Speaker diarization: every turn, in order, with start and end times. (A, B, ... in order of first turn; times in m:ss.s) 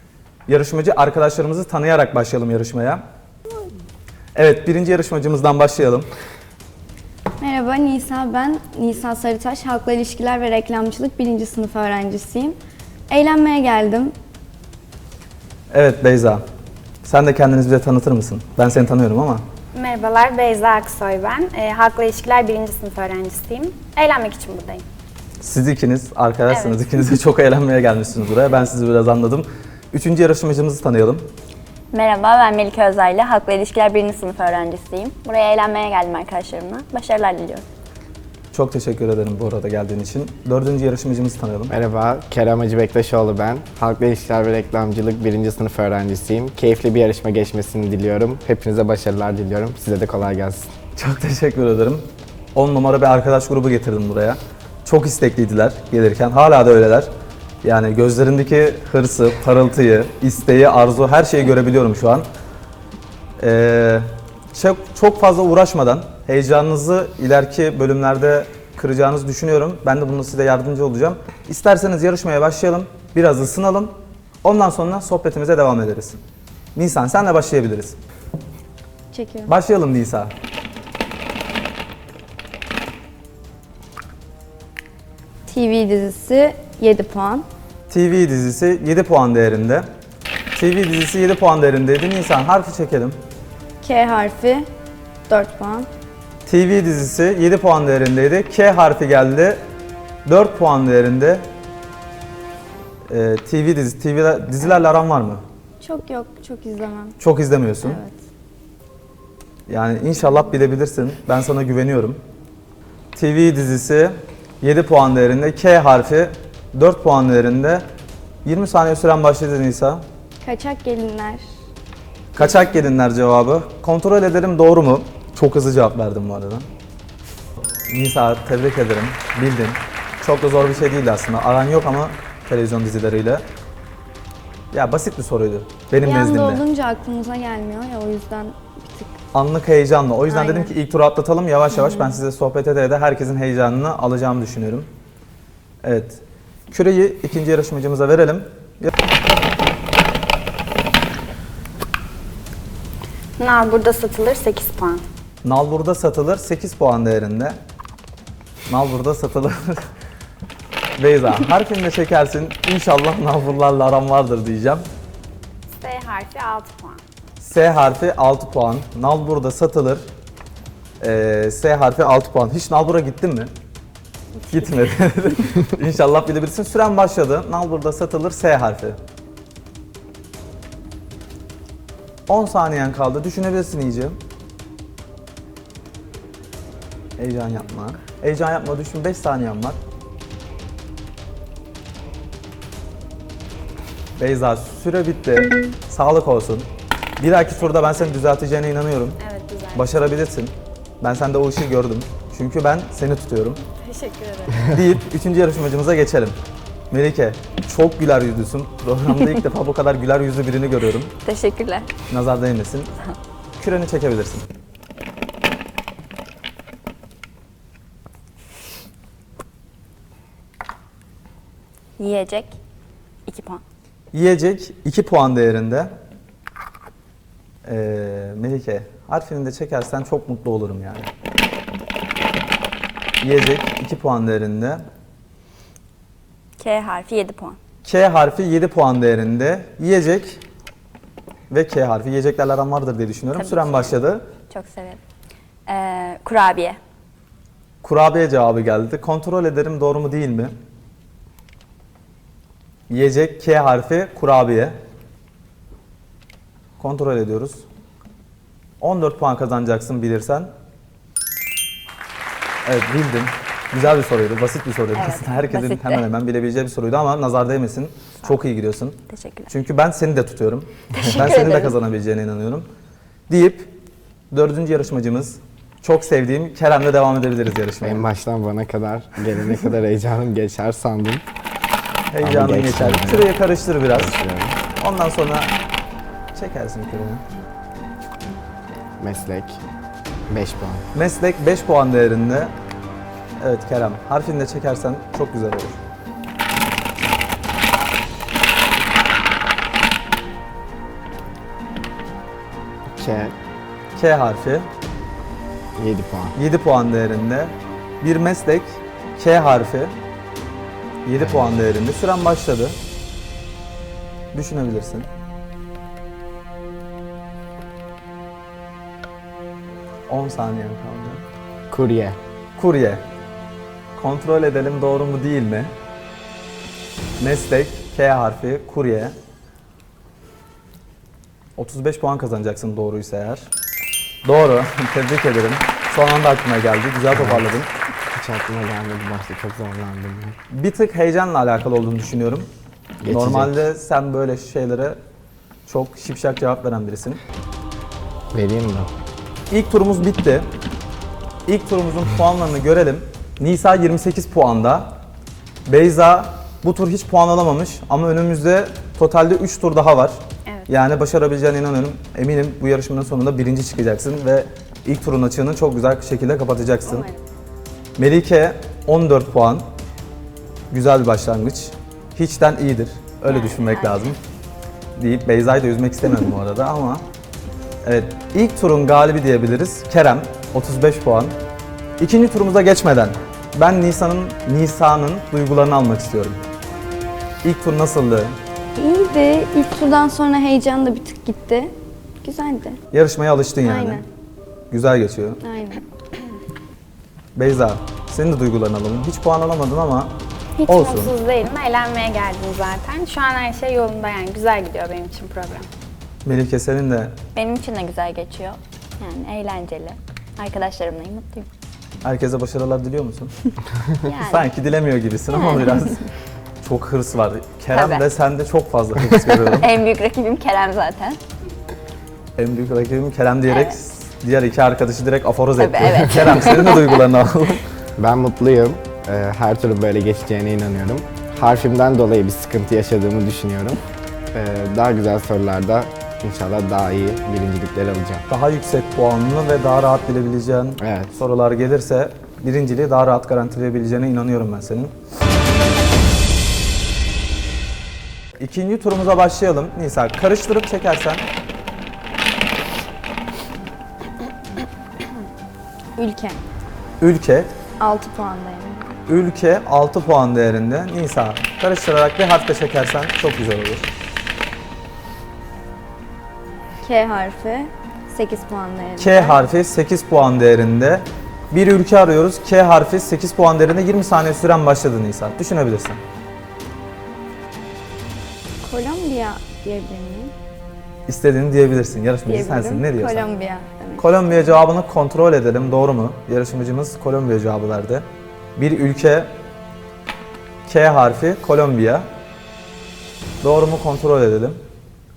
0:00.5-0:03.0 A
0:04.4-0:06.1 A
0:07.4-0:12.6 B
0:13.1-0:14.1 B
0:15.7-0:16.4 A
0:17.0-0:19.4 A
0:19.7-0:24.8 C
0:25.4-0:31.3 A
0:26.5-0:26.8 C
0:31.9-0:37.6 D
0:38.5-0:41.7 A
0:41.7-0:50.7 E
0:51.0-0:57.1 A
0:57.6-1:02.3 A
1:03.4-1:16.2 A
1:16.8-1:18.0 A
1:19.1-1:19.6 B
1:19.5-1:20.3 A
1:25.5-1:27.5 B
1:27.9-1:29.9 A
1:30.6-1:33.2 A
1:33.8-1:34.7 B
1:35.3-1:35.9 B
1:36.5-1:39.6 A
1:40.2-1:41.5 A
1:43.1-1:45.4 A
1:45.8-1:47.2 B
1:47.2-1:48.0 A
1:47.8-1:48.2 B
1:49.7-1:52.2 A
1:53.2-1:57.9 A
1:58.4-2:00.0 A
2:00.4-2:01.4 B
2:02.3-2:06.7 A
2:07.9-2:13.4 A
2:14.7-2:16.6 A
2:16.0-2:19.1 B
2:19.3-2:24.9 A
2:20.3-2:20.7 B
2:25.8-2:28.9 A
2:33.4-2:35.0 C
2:35.4-2:37.6 A
2:38.7-2:39.9 A
2:41.0-2:44.8 A
2:45.7-2:47.0 C
2:47.4-2:50.1 A
2:51.0-2:53.5 A
2:54.5-2:59.0 A
3:02.3-3:04.2 A
3:07.2-3:09.8 A
3:14.2-3:16.7 A
3:17.2-3:19.2 A
3:19.2-3:19.9 C
3:19.8-3:23.6 A
3:23.8-3:24.7 C
3:24.6-3:26.4 A
3:26.9-3:31.2 A
3:31.2-3:31.9 D
3:32.1-3:32.9 A
3:33.6-3:34.5 A
3:42.0-3:42.6 D
3:43.3-3:43.6 D
3:44.1-3:45.9 A
3:47.6-3:51.1 A
3:53.2-3:54.8 A
3:56.6-3:57.6 D
3:57.8-4:00.4 A
4:01.5-4:04.3 A
4:03.3-4:04.0 D
4:04.5-4:05.0 D
4:05.7-4:06.8 D
4:07.8-4:10.6 A
4:12.9-4:14.8 A
4:16.8-4:17.6 A
4:18.8-4:20.5 A
4:22.6-4:32.7 A
4:25.0-4:26.1 D
4:29.1-4:29.5 D
4:30.9-4:31.8 D
4:33.3-4:33.7 A
4:34.3-4:38.0 A
4:37.8-4:41.2 E
4:42.1-4:44.2 A
4:42.2-4:43.3 E
4:43.9-4:44.6 E
4:44.8-4:45.5 A
4:46.3-4:47.2 A
4:49.0-4:49.6 E
4:50.3-4:50.9 E
4:51.0-4:52.5 A
4:53.4-4:55.8 A
5:02.9-5:03.4 E
5:04.0-5:04.7 A
5:05.8-5:06.4 E
5:06.4-5:10.0 A
5:11.0-5:12.8 A
5:11.2-5:11.7 E
5:14.3-5:15.1 A
5:20.1-5:21.2 A
5:21.7-5:22.2 E
5:22.6-5:23.0 A
5:24.0-5:25.7 A
5:27.2-5:29.2 A
5:31.6-5:33.5 A
5:34.2-5:37.7 A
5:37.1-5:40.4 E
5:40.5-5:42.5 A
5:43.0-5:43.6 E
5:43.1-5:45.0 A
5:45.7-5:47.2 A
5:48.3-5:48.9 E
5:49.5-5:50.5 A
5:51.5-5:55.0 A
5:55.7-6:07.1 A
6:00.5-6:00.7 C
6:06.8-6:07.2 C
6:08.0-6:09.7 A
6:10.7-6:14.2 A
6:13.3-6:14.1 D
6:15.0-6:17.0 A
6:17.8-6:21.4 A
6:22.0-6:26.4 A
6:27.4-6:28.4 A
6:28.8-6:32.8 B
6:32.9-6:34.0 A
6:33.6-6:34.0 B
6:34.7-6:35.4 A
6:35.4-6:35.8 B
6:37.4-6:40.2 A
6:40.6-6:45.7 C
6:40.7-6:41.1 A
6:46.2-6:47.2 A
6:47.4-6:51.5 D
6:52.0-6:53.3 A
6:54.0-6:54.5 D
6:54.1-6:56.1 A
6:55.4-6:55.7 D
6:56.6-6:59.7 A
6:57.7-6:58.1 D
6:59.4-7:01.2 D
7:02.4-7:07.6 A
7:03.5-7:03.8 D
7:05.6-7:07.0 D
7:08.0-7:13.8 E
7:14.3-7:18.2 E
7:18.3-7:24.9 A
7:20.8-7:21.2 E
7:28.4-7:31.2 A
7:36.0-7:36.4 B
7:37.0-7:37.5 A
7:37.8-7:39.0 B
7:39.1-7:43.9 A
7:46.8-7:49.4 B
7:49.0-7:56.0 A
7:58.6-8:00.3 B
8:01.1-8:03.3 A
8:02.3-8:04.1 B
8:04.0-8:09.3 A
8:10.7-8:12.1 A
8:13.4-8:14.6 A